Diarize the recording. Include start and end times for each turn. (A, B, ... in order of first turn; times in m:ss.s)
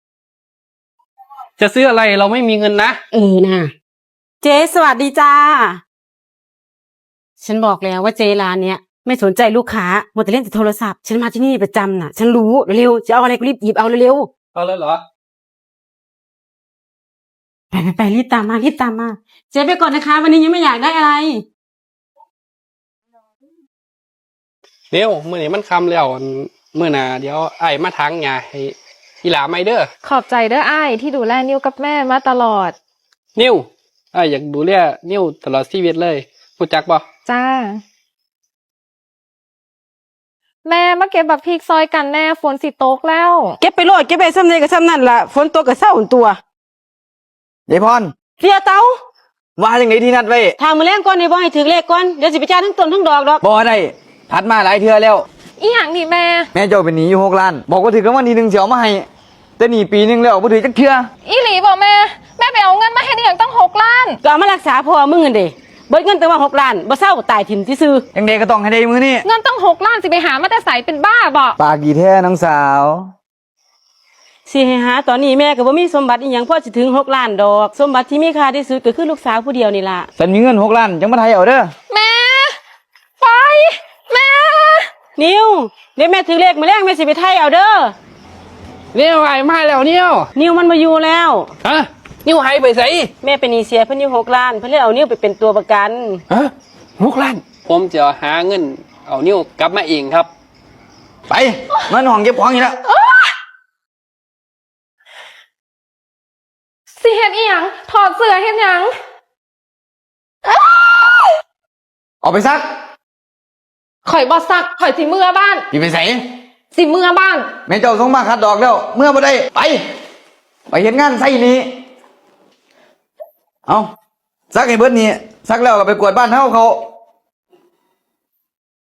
0:01.6-0:03.0 A
0:03.1-0:03.7 B
0:04.4-0:05.8 B
0:07.4-0:14.3 B
0:14.5-0:15.0 A
0:17.7-0:21.4 B
0:24.9-0:29.9 A
0:30.0-0:32.8 C
0:33.4-0:37.0 A
0:37.2-0:37.8 C
0:40.6-0:43.6 C
0:43.6-0:46.4 B
0:47.7-0:48.1 D
0:48.4-0:48.9 B
0:49.6-0:50.6 D
0:50.6-0:53.4 B
0:53.4-0:55.2 D
0:55.6-0:56.5 C
0:56.5-0:59.1 D
0:59.6-1:01.1 D
1:01.2-1:04.2 C
1:04.2-1:08.0 B
1:08.1-1:09.2 D
1:09.2-1:11.6 C
1:11.6-1:13.1 D
1:14.5-1:20.1 B
1:20.2-1:21.7 D
1:21.9-1:22.6 C
1:23.2-1:24.9 C
1:25.2-1:27.9 B
1:28.9-1:30.3 A
1:30.3-1:31.5 B
1:31.6-1:33.1 A
1:33.2-1:36.2 B
1:36.3-1:40.3 A
1:41.3-1:42.8 D
1:47.0-1:48.9 C
1:52.2-1:52.6 D
1:54.0-1:55.6 C
1:55.7-1:56.2 D
1:56.7-1:57.5 C
1:57.7-1:59.8 D
2:00.7-2:01.7 D
2:04.5-2:06.8 D